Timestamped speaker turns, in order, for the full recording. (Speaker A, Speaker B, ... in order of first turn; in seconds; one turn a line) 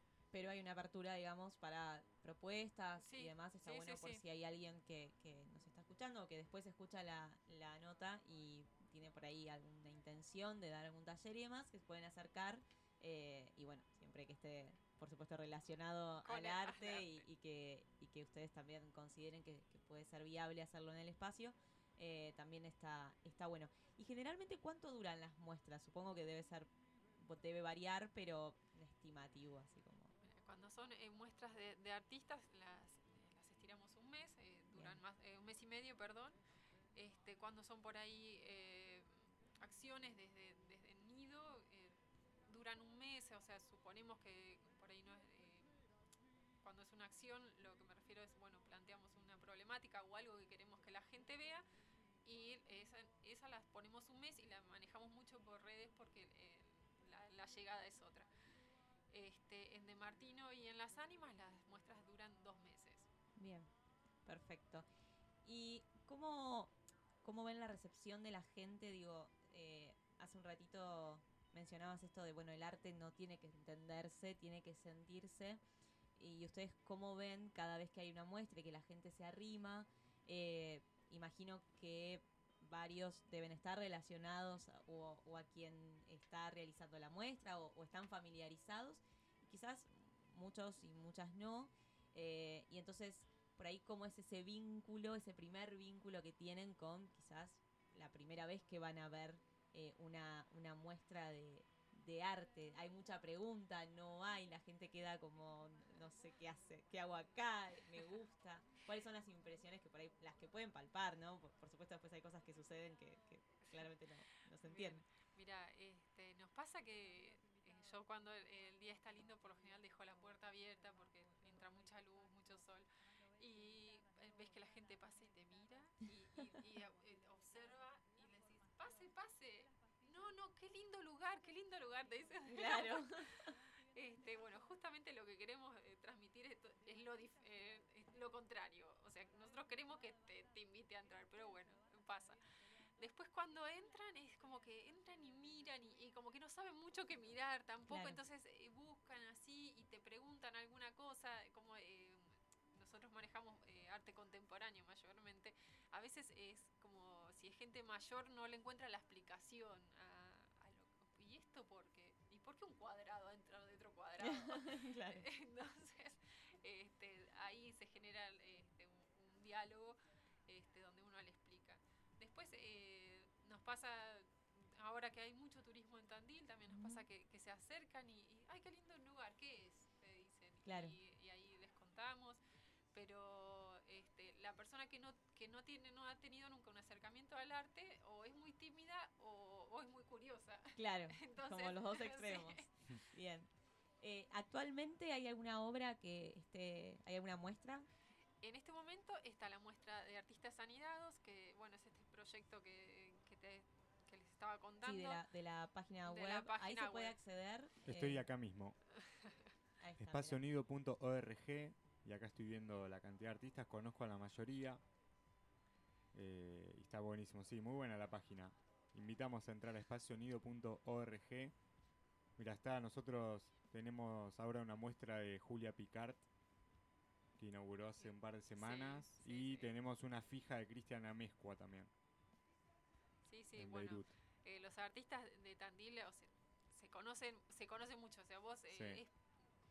Speaker A: 0.3-30.1
Speaker B: 3.0-4.2
Speaker B: 16.2-17.2
Speaker B: 30.2-36.4
Speaker A: 34.7-35.0
Speaker B: 36.9-45.8
Speaker B: 46.6-51.6
Speaker B: 52.2-58.3
Speaker B: 59.1-63.1
Speaker A: 63.4-63.7
Speaker A: 64.2-64.8
Speaker A: 65.4-75.6
Speaker A: 76.2-115.0
Speaker B: 113.6-113.9
Speaker B: 114.6-122.8
Speaker B: 123.4-133.1
Speaker A: 132.5-133.3
Speaker B: 133.9-142.4
Speaker B: 143.0-152.2
Speaker A: 147.9-148.2
Speaker B: 152.7-169.9
Speaker A: 164.2-165.2
Speaker B: 170.5-182.4
Speaker A: 176.7-177.1
Speaker A: 180.6-180.9
Speaker B: 182.9-192.7
Speaker A: 190.8-193.5
Speaker A: 194.0-197.9
Speaker B: 198.4-205.2
Speaker A: 204.8-208.2
Speaker B: 206.0-207.2
Speaker C: 207.8-208.8
Speaker A: 209.8-210.4
Speaker C: 210.0-214.8
Speaker C: 216.1-221.5
Speaker C: 222.4-226.2
Speaker C: 227.4-231.9
Speaker B: 228.0-229.7
Speaker B: 233.2-239.1
Speaker C: 233.6-234.1
Speaker C: 238.7-239.0